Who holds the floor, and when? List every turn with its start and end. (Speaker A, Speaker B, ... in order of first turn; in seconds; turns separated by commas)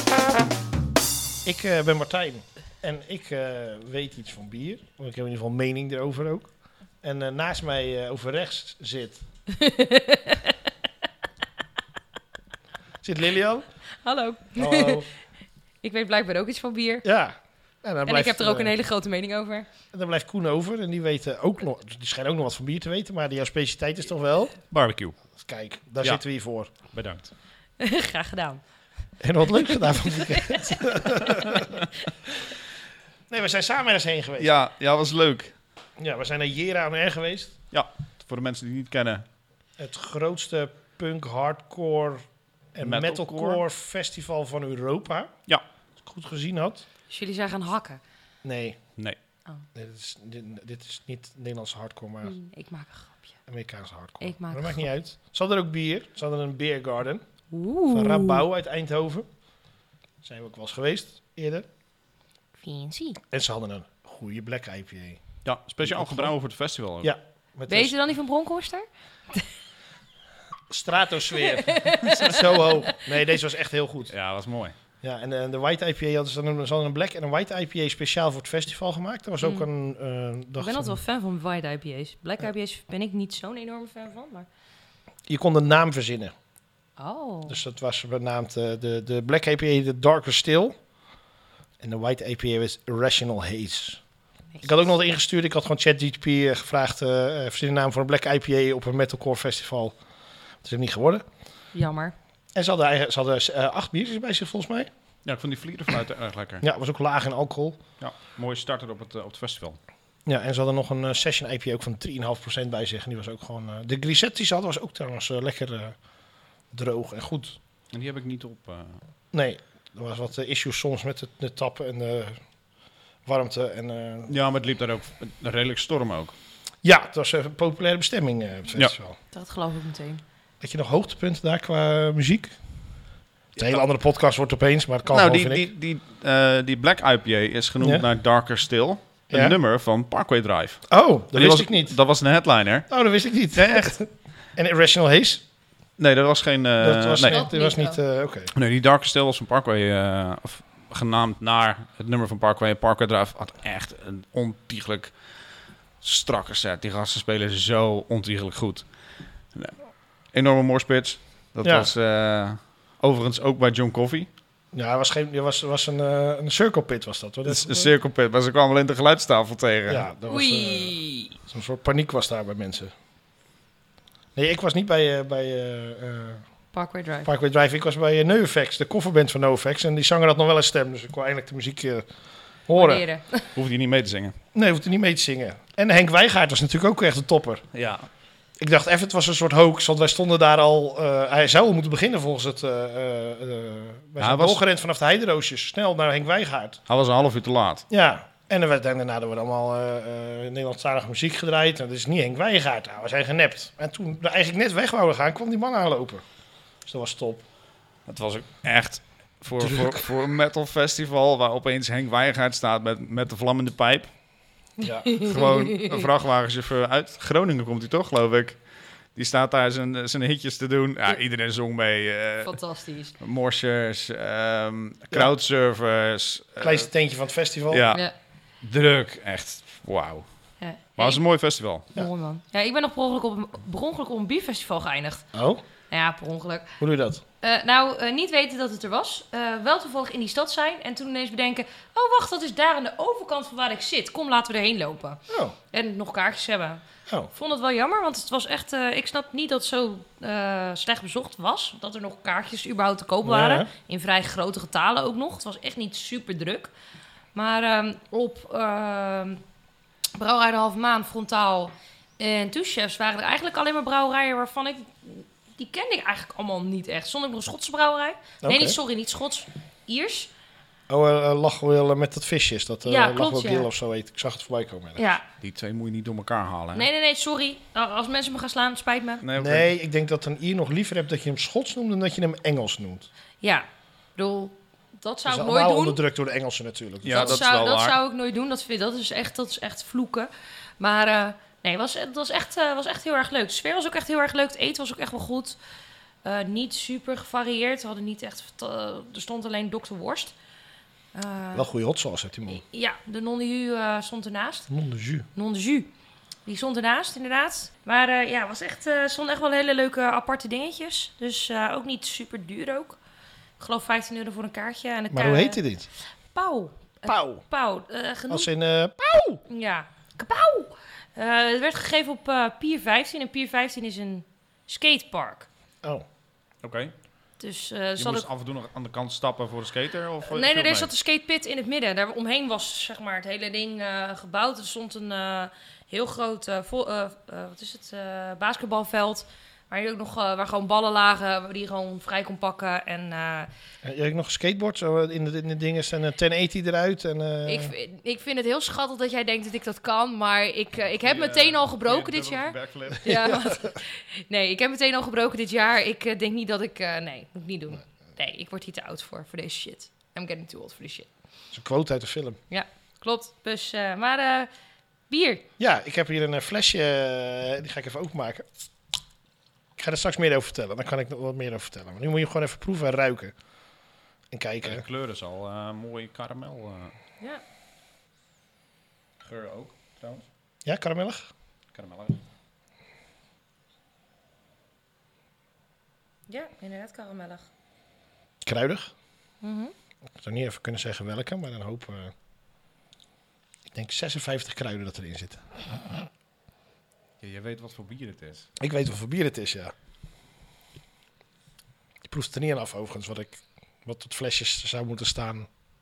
Speaker A: 1.4-6.5, Speaker A: 7.0-9.2, Speaker B: 9.5-10.5, Speaker A: 13.0-13.6, Speaker B: 14.0-15.1, Speaker A: 14.6-15.1, Speaker B: 15.8-17.1, Speaker A: 17.0-18.7, Speaker B: 18.1-19.7, Speaker A: 19.9-24.6, Speaker C: 24.7-25.2, Speaker A: 25.3-26.7, Speaker C: 26.9-27.3, Speaker B: 27.8-28.6, Speaker A: 29.2-31.7, Speaker B: 29.6-31.6, Speaker A: 33.3-34.5, Speaker C: 34.4-35.5, Speaker A: 36.0-37.5, Speaker C: 37.7-39.2, Speaker A: 39.8-42.2, Speaker A: 42.7-45.3, Speaker C: 42.8-43.6, Speaker A: 46.0-46.9, Speaker B: 47.1-48.0, Speaker A: 48.4-48.8, Speaker A: 49.7-52.4, Speaker B: 52.2-53.3, Speaker A: 53.5-57.2, Speaker B: 54.2-54.8, Speaker B: 57.5-58.4, Speaker A: 57.9-59.3, Speaker A: 60.2-61.6, Speaker B: 62.6-63.2, Speaker A: 63.3-65.2, Speaker C: 65.4-67.1, Speaker A: 65.8-66.3, Speaker A: 67.0-67.9, Speaker B: 67.7-69.5, Speaker A: 70.7-74.1, Speaker B: 71.4-73.1, Speaker C: 74.1-74.7, Speaker A: 75.0-81.0, Speaker B: 79.4-79.7, Speaker B: 80.6-84.5, Speaker A: 85.3-86.3, Speaker B: 87.0-87.6, Speaker A: 87.5-90.8, Speaker A: 91.8-94.0, Speaker B: 94.5-94.8, Speaker A: 94.6-100.0, Speaker A: 100.6-101.2, Speaker B: 101.7-102.1, Speaker A: 102.5-104.9, Speaker C: 105.2-106.6, Speaker A: 106.6-107.8, Speaker C: 108.0-109.8, Speaker A: 110.2-116.0, Speaker A: 116.7-117.6, Speaker C: 117.9-119.0, Speaker A: 119.3-122.4, Speaker A: 123.2-124.3, Speaker C: 124.3-126.3, Speaker A: 126.8-129.2, Speaker B: 129.3-130.2, Speaker A: 130.6-132.5, Speaker A: 133.6-135.7, Speaker C: 133.6-133.8, Speaker C: 135.1-142.9, Speaker A: 137.8-138.0, Speaker A: 139.3-139.6, Speaker A: 140.9-142.0, Speaker A: 142.9-145.4, Speaker C: 143.5-143.9, Speaker C: 146.0-147.4, Speaker A: 146.8-148.5, Speaker B: 147.2-148.0, Speaker C: 148.5-155.1, Speaker C: 156.0-158.9, Speaker C: 159.5-164.3, Speaker A: 161.6-161.9, Speaker A: 164.7-167.9, Speaker C: 167.4-170.1, Speaker A: 169.9-172.9, Speaker B: 170.3-171.3, Speaker A: 174.3-176.4, Speaker B: 176.7-177.3, Speaker A: 177.2-182.1, Speaker A: 182.7-183.1, Speaker B: 182.7-183.5, Speaker C: 183.5-184.3, Speaker A: 184.5-187.7, Speaker C: 187.7-188.1, Speaker A: 188.6-196.8, Speaker C: 194.2-194.6, Speaker C: 196.9-197.8, Speaker A: 197.9-206.2, Speaker A: 206.8-207.4, Speaker C: 208.1-214.1, Speaker A: 209.6-210.0, Speaker B: 214.8-216.1, Speaker A: 214.8-215.1, Speaker C: 215.2-218.6, Speaker C: 219.1-222.6, Speaker B: 222.4-223.1, Speaker C: 223.2-226.9, Speaker A: 226.6-227.8, Speaker C: 227.7-228.0, Speaker C: 228.6-230.2, Speaker B: 230.6-231.2, Speaker C: 231.0-231.9, Speaker B: 231.9-235.3, Speaker A: 235.3-235.6, Speaker B: 235.9-236.8, Speaker A: 236.8-237.2, Speaker B: 237.4-256.7, Speaker A: 245.3-245.5, Speaker A: 253.2-253.7, Speaker B: 257.3-259.4, Speaker B: 260.1-270.3, Speaker A: 268.4-268.8, Speaker A: 270.9-275.0, Speaker B: 272.8-273.7, Speaker B: 274.9-275.2, Speaker C: 275.4-276.9, Speaker B: 276.7-279.2, Speaker C: 279.2-279.7, Speaker A: 279.3-283.1, Speaker B: 283.4-286.0, Speaker A: 285.2-287.4, Speaker C: 287.0-287.9, Speaker B: 287.1-295.6, Speaker B: 296.2-300.3, Speaker B: 301.1-301.7, Speaker A: 301.5-302.6, Speaker B: 302.5-304.7, Speaker A: 304.7-305.3, Speaker B: 305.3-305.9, Speaker B: 306.4-313.0, Speaker B: 313.6-315.6, Speaker A: 315.1-315.9, Speaker B: 316.3-318.5, Speaker A: 317.0-317.4, Speaker A: 318.3-319.4, Speaker B: 319.5-325.5, Speaker C: 326.6-326.9, Speaker B: 327.4-328.3, Speaker C: 328.0-330.9, Speaker B: 330.2-343.5, Speaker A: 343.8-347.7, Speaker B: 347.4-361.1, Speaker C: 350.9-353.2, Speaker A: 361.5-362.4, Speaker B: 362.5-364.5, Speaker B: 365.1-365.4, Speaker A: 365.6-368.5, Speaker A: 369.8-373.3, Speaker A: 374.3-374.8, Speaker C: 374.6-376.9, Speaker C: 379.2-380.2, Speaker A: 380.6-381.3, Speaker C: 381.7-382.2, Speaker B: 386.3-387.4, Speaker A: 388.4-388.9, Speaker B: 389.4-389.7, Speaker A: 390.1-392.1, Speaker A: 393.7-395.5, Speaker C: 397.2-398.5, Speaker A: 398.6-399.7, Speaker A: 402.1-405.5